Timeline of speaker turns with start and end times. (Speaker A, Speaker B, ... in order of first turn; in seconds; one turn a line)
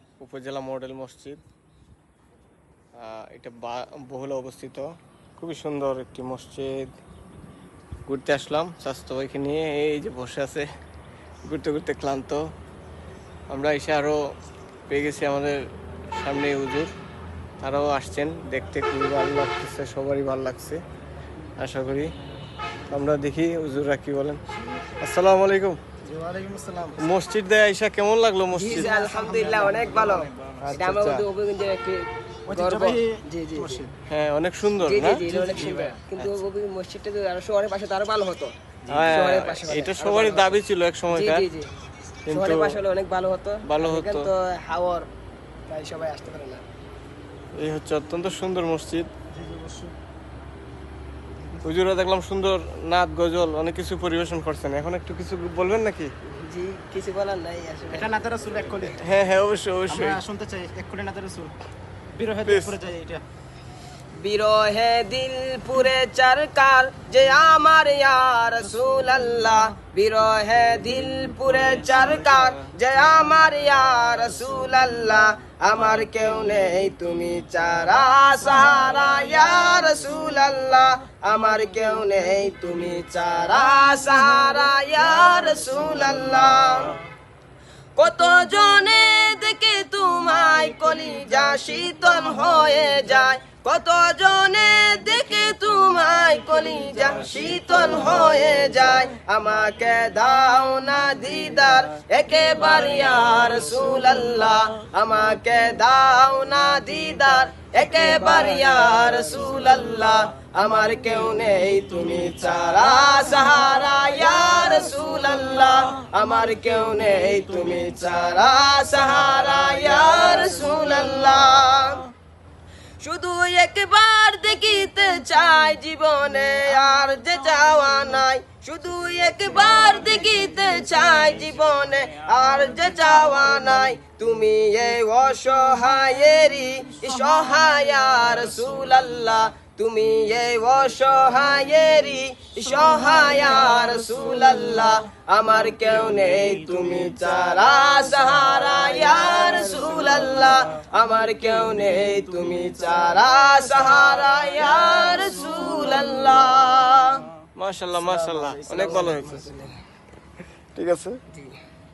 Speaker A: 0.2-1.4
Speaker A: 3.0-4.9
Speaker A: 5.4-6.9
Speaker A: 8.1-10.7
Speaker A: 11.5-12.4
Speaker A: 13.5-14.2
Speaker A: 14.9-15.6
Speaker A: 16.2-16.9
Speaker A: 17.6-20.8
Speaker A: 21.6-22.1
Speaker A: 22.9-24.4
Speaker A: 25.0-25.8
Speaker B: 26.1-27.0
Speaker A: 27.0-28.9
Speaker C: 28.6-33.9
Speaker B: 28.7-30.6
Speaker A: 30.6-31.2
Speaker B: 32.5-33.9
Speaker A: 34.1-35.2
Speaker C: 34.8-38.5
Speaker B: 35.3-36.0
Speaker A: 38.9-41.5
Speaker C: 39.1-40.6
Speaker C: 41.1-41.7
Speaker A: 42.3-42.7
Speaker C: 42.3-45.1
Speaker A: 43.6-44.3
Speaker C: 45.7-46.6
Speaker A: 47.6-49.1
Speaker B: 49.3-50.0
Speaker A: 51.6-56.1
Speaker C: 56.3-58.1
Speaker B: 57.9-59.0
Speaker A: 59.0-60.2
Speaker B: 59.9-61.5
Speaker B: 62.1-63.2
Speaker A: 62.5-62.8
Speaker C: 64.2-87.0
Speaker C: 88.0-122.0
Speaker C: 123.0-157.2
Speaker A: 157.6-159.4
Speaker C: 158.0-159.7
Speaker B: 158.8-159.4
Speaker A: 160.8-161.2